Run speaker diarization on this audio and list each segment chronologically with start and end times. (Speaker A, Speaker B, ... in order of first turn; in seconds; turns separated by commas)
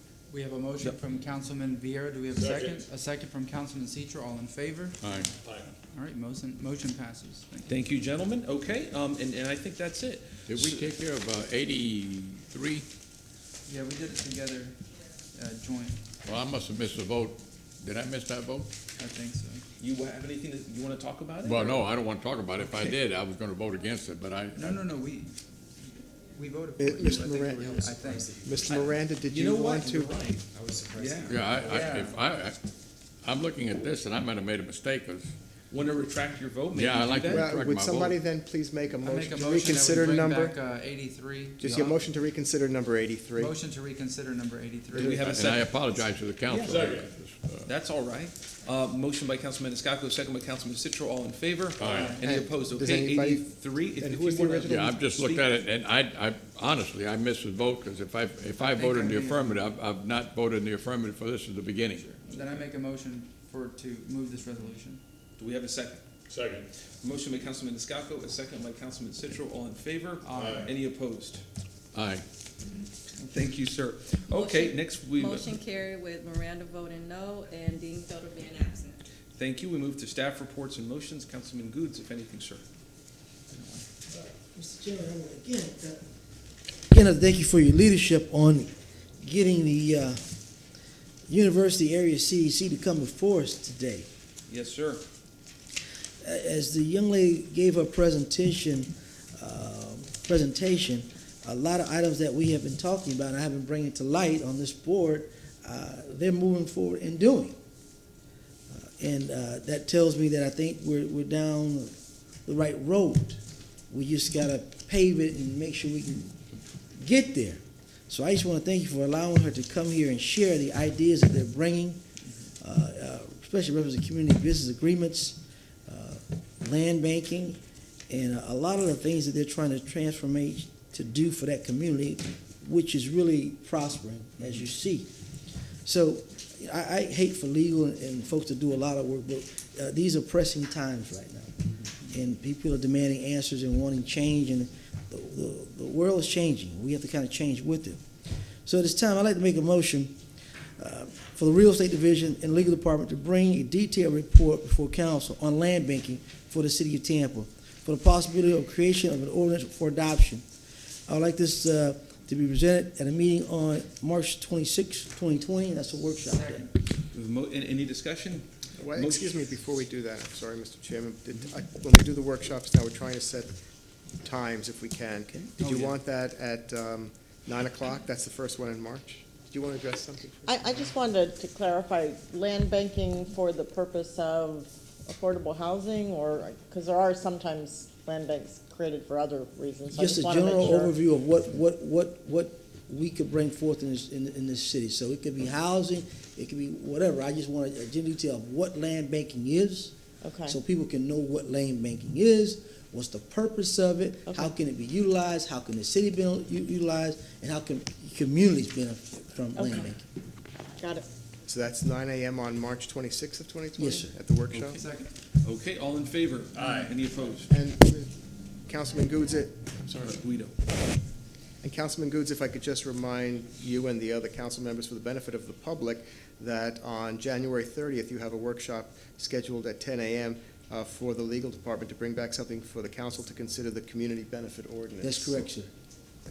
Speaker A: 0.3-7.8, Speaker B: 2.3-2.9, Speaker C: 5.0-5.3, Speaker B: 5.4-5.7, Speaker D: 7.7-10.8, Speaker C: 10.5-12.8, Speaker A: 13.7-14.8, Speaker A: 15.3-16.0, Speaker C: 16.2-18.7, Speaker A: 19.0-19.6, Speaker D: 19.8-21.9, Speaker C: 21.4-24.7, Speaker A: 24.6-25.3, Speaker A: 26.3-28.6, Speaker E: 26.8-30.2, Speaker D: 28.7-31.4, Speaker A: 30.5-32.2, Speaker C: 31.3-32.6, Speaker C: 33.2-35.3, Speaker D: 35.7-37.5, Speaker C: 36.7-38.2, Speaker E: 37.3-40.5, Speaker A: 39.0-42.0, Speaker E: 41.6-43.5, Speaker A: 43.4-45.3, Speaker D: 44.9-45.8, Speaker C: 45.2-47.7, Speaker D: 46.5-46.9, Speaker B: 46.7-47.0, Speaker D: 47.6-55.6, Speaker C: 51.8-52.2, Speaker A: 51.9-52.2, Speaker E: 52.1-54.8, Speaker C: 54.6-62.0, Speaker A: 58.6-59.6, Speaker A: 61.9-65.0, Speaker D: 65.4-66.0, Speaker B: 66.3-66.7, Speaker D: 67.0-71.4, Speaker A: 70.2-70.7, Speaker B: 70.4-70.7, Speaker C: 71.9-72.2, Speaker A: 73.2-73.5, Speaker D: 73.3-75.6, Speaker F: 74.3-79.0, Speaker D: 79.4-82.6, Speaker D: 83.5-83.8, Speaker G: 84.1-86.0, Speaker G: 86.9-90.2, Speaker G: 91.3-94.1, Speaker D: 94.5-95.0, Speaker G: 96.2-107.6, Speaker G: 108.7-111.9, Speaker G: 112.5-116.4, Speaker G: 117.0-122.0, Speaker G: 122.6-127.6, Speaker G: 128.1-135.1, Speaker G: 135.8-148.0, Speaker G: 148.7-150.2, Speaker G: 150.8-160.4, Speaker G: 161.1-166.7, Speaker A: 166.2-166.7, Speaker D: 167.1-169.5, Speaker E: 168.8-173.6, Speaker E: 174.2-180.9, Speaker H: 180.5-190.9, Speaker G: 189.9-199.9, Speaker H: 200.2-200.6, Speaker G: 200.5-210.0, Speaker H: 204.3-204.5, Speaker H: 209.6-209.9, Speaker E: 211.4-214.8, Speaker G: 213.8-214.2, Speaker A: 214.6-215.1, Speaker D: 215.4-217.5, Speaker E: 217.5-218.2, Speaker E: 218.7-220.1, Speaker D: 219.9-220.6, Speaker E: 221.6-235.5, Speaker G: 235.0-235.7